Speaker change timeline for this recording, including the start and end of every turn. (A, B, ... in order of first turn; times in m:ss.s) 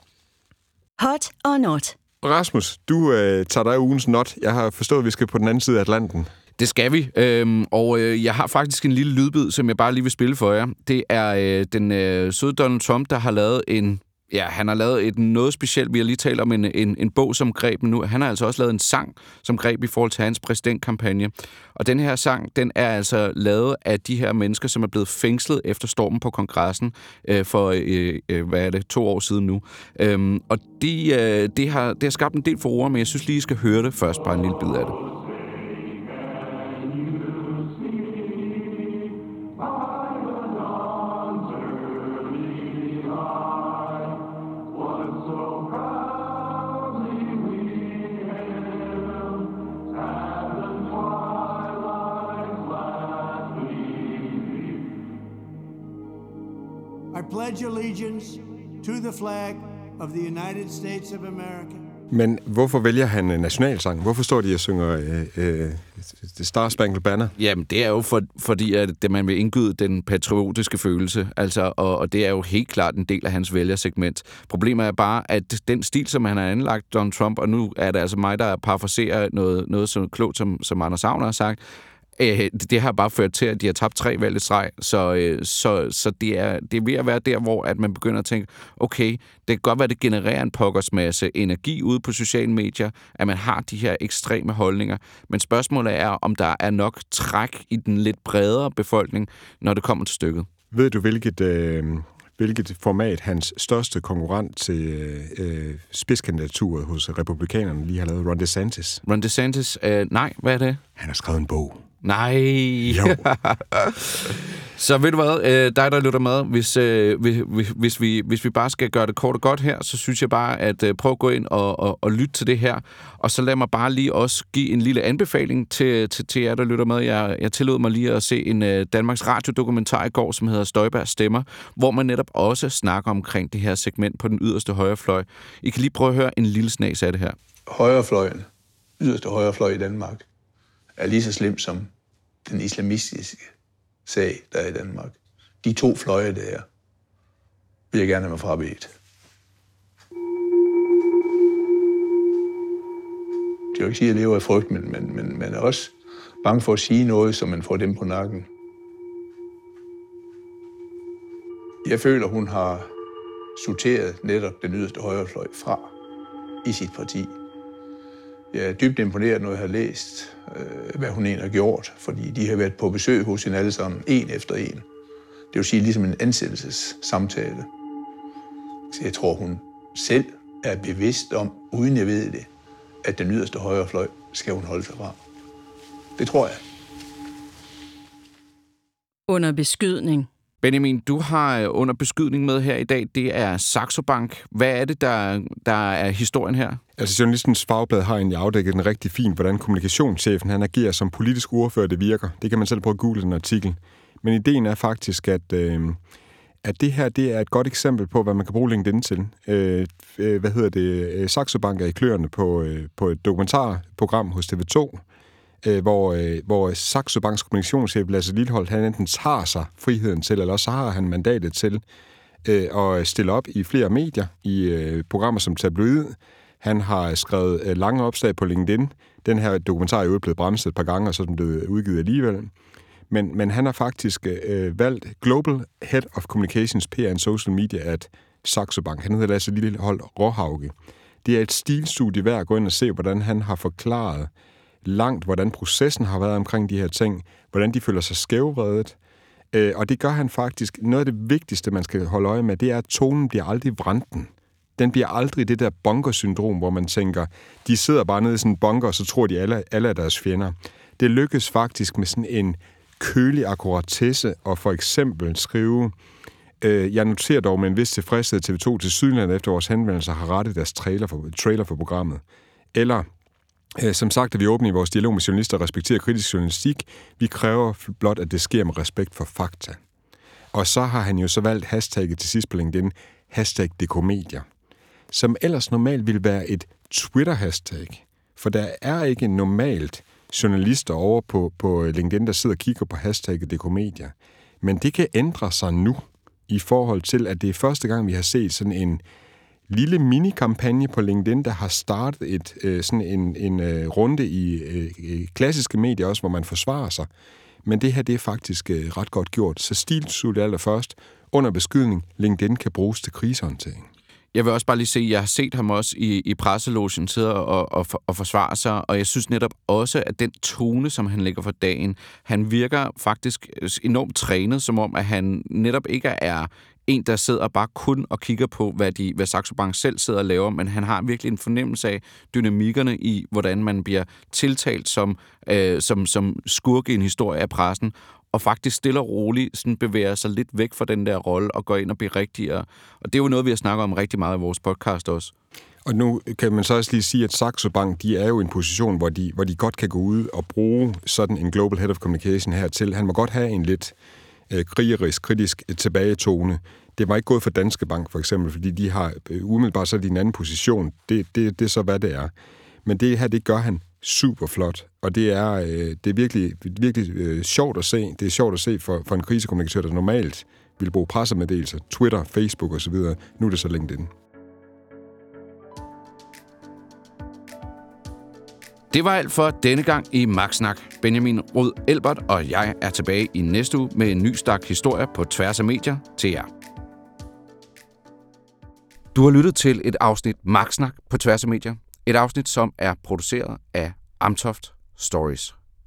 0:01.0-0:01.9 A
0:02.2-0:06.3 B
0:06.6-0:35.0 C
0:57.1-1:01.7 D
0:57.6-0:57.9 A
1:00.6-1:01.6 A
1:02.1-1:07.3 B
1:07.4-1:21.6 C
1:22.2-1:40.5 C
1:40.7-1:49.0 B
1:49.0-1:50.8 C
1:51.0-1:51.8 B
1:52.0-2:17.4 C
1:52.9-1:53.3 B
2:17.7-2:18.5 E
2:19.0-2:20.2 E
2:21.0-2:21.9 E
2:22.4-2:23.5 E
2:24.0-2:26.7 E
2:27.9-2:28.9 E
2:33.7-2:38.5 E
2:41.8-2:42.9 E
2:43.6-2:45.9 E
2:46.6-2:47.4 E
2:48.5-2:54.8 E
2:55.5-2:57.7 E
2:58.9-3:02.5 E
3:03.0-3:05.2 E
3:06.2-3:06.6 E
3:09.3-3:10.3 A
3:10.6-3:16.8 C
3:17.0-3:26.0 B
3:26.6-3:35.0 B
3:35.6-3:41.8 B
3:42.4-3:52.5 B
3:53.1-4:04.3 B
4:04.8-4:09.0 B
4:09.5-4:25.9 B
4:26.6-4:32.2 B
4:32.7-4:33.1 B
4:33.8-4:39.8 B
4:40.5-4:44.4 B
4:45.1-4:59.0 B
4:59.7-5:07.1 B
5:07.6-5:13.9 B
5:14.3-5:45.3 C
5:45.8-5:53.9 B
5:54.5-6:02.3 B
6:02.8-6:14.1 B
6:18.9-6:26.5 C
6:29.1-6:35.6 C